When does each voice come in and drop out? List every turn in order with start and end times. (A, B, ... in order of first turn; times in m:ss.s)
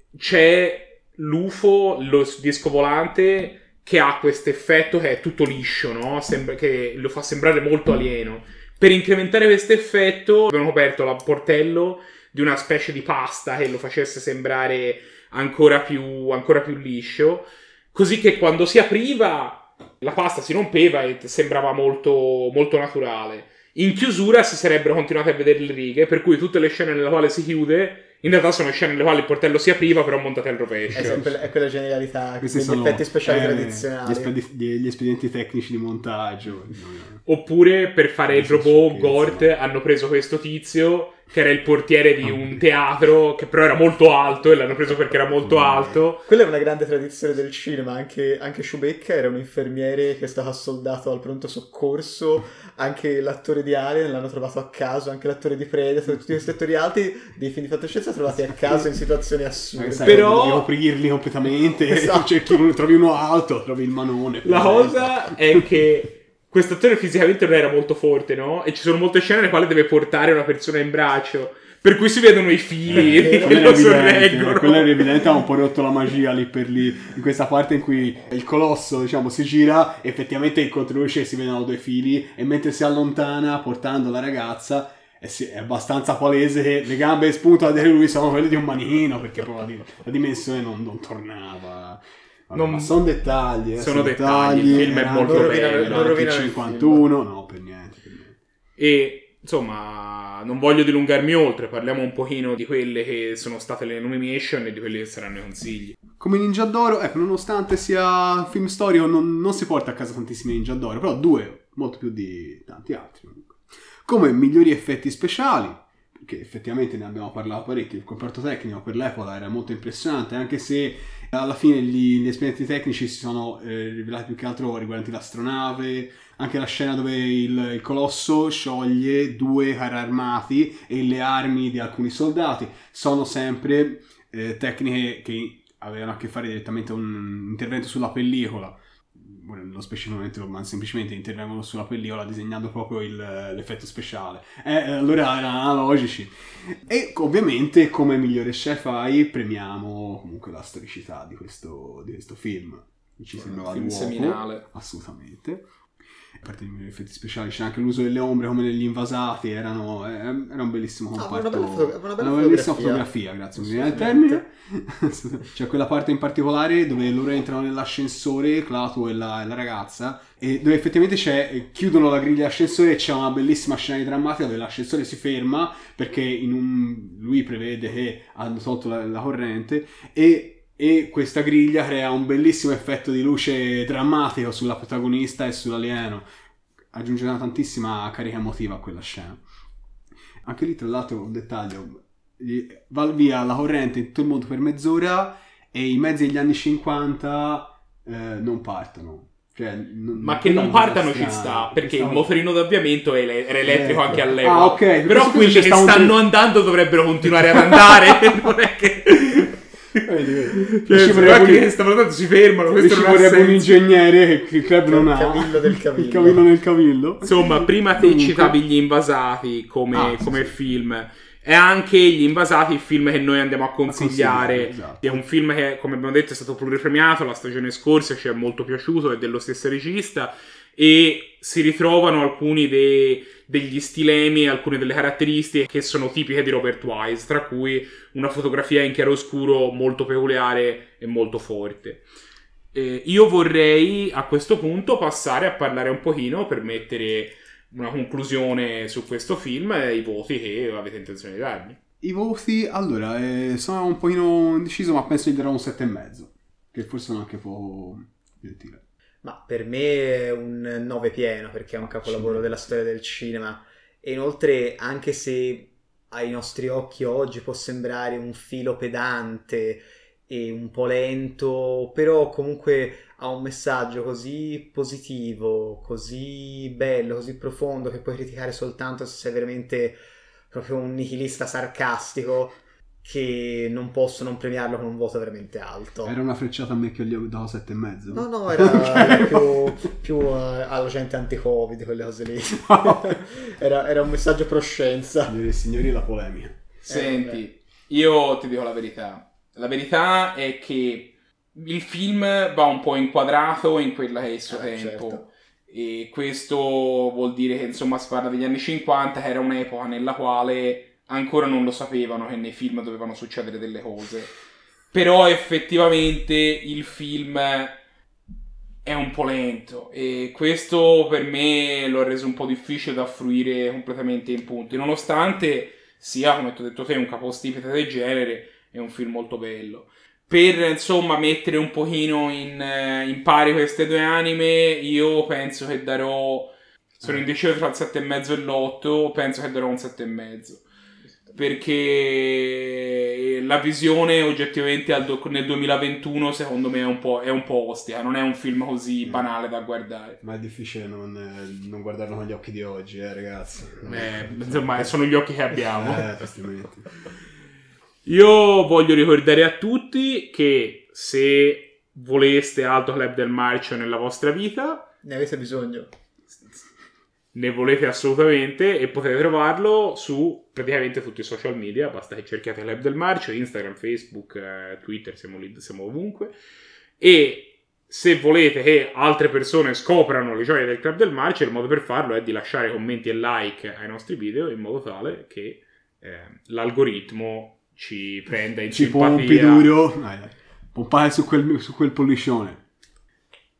0:00.1-0:31.2 A
0:30.9-0:31.3 B
0:30.9-0:34.3 C
0:32.4-0:37.2 B
0:37.2-0:46.2 A
0:38.3-0:39.5 B
0:42.2-0:42.6 B
0:45.4-0:46.0 B
0:46.3-1:00.4 C
0:59.8-1:05.6 B
1:00.0-1:00.7 A
1:01.9-1:02.5 C
1:04.4-1:15.1 A
1:12.9-1:38.4 B
1:13.2-1:13.6 C
1:32.5-1:33.0 A
1:33.8-1:36.2 A
1:35.2-1:37.1 C
1:38.8-1:46.0 A
1:46.2-2:35.6 B
2:33.7-2:34.6 A
2:36.4-3:06.2 B
2:41.2-2:44.4 C
3:06.9-3:09.4 B
3:10.4-3:22.3 B
3:20.2-3:33.8 A
3:23.6-3:26.2 B
3:27.4-3:27.8 B
3:29.9-3:31.7 B
3:32.7-3:38.6 B
3:34.9-3:36.4 C
3:37.2-4:02.0 A
3:39.9-3:40.6 B
3:43.9-3:45.2 B
4:02.7-4:11.8 A
4:12.0-4:18.8 B
4:19.2-4:46.2 C
4:22.0-4:22.6 B
4:46.0-4:49.8 B
4:48.1-4:55.3 C
4:52.5-4:53.2 B
4:55.3-4:56.6 B
4:56.8-5:14.3 A
4:56.9-4:57.4 C
5:04.5-5:05.3 C
5:14.9-5:17.8 A
5:18.8-5:40.6 A
5:41.3-5:50.2 A
5:49.0-5:49.3 B
5:50.2-5:55.0 B
5:53.8-5:56.1 A
5:55.6-5:56.9 B
5:58.0-6:04.8 A
6:05.0-6:05.9 C
6:07.3-6:16.3 A
6:17.0-6:29.7 A
6:28.7-6:32.6 B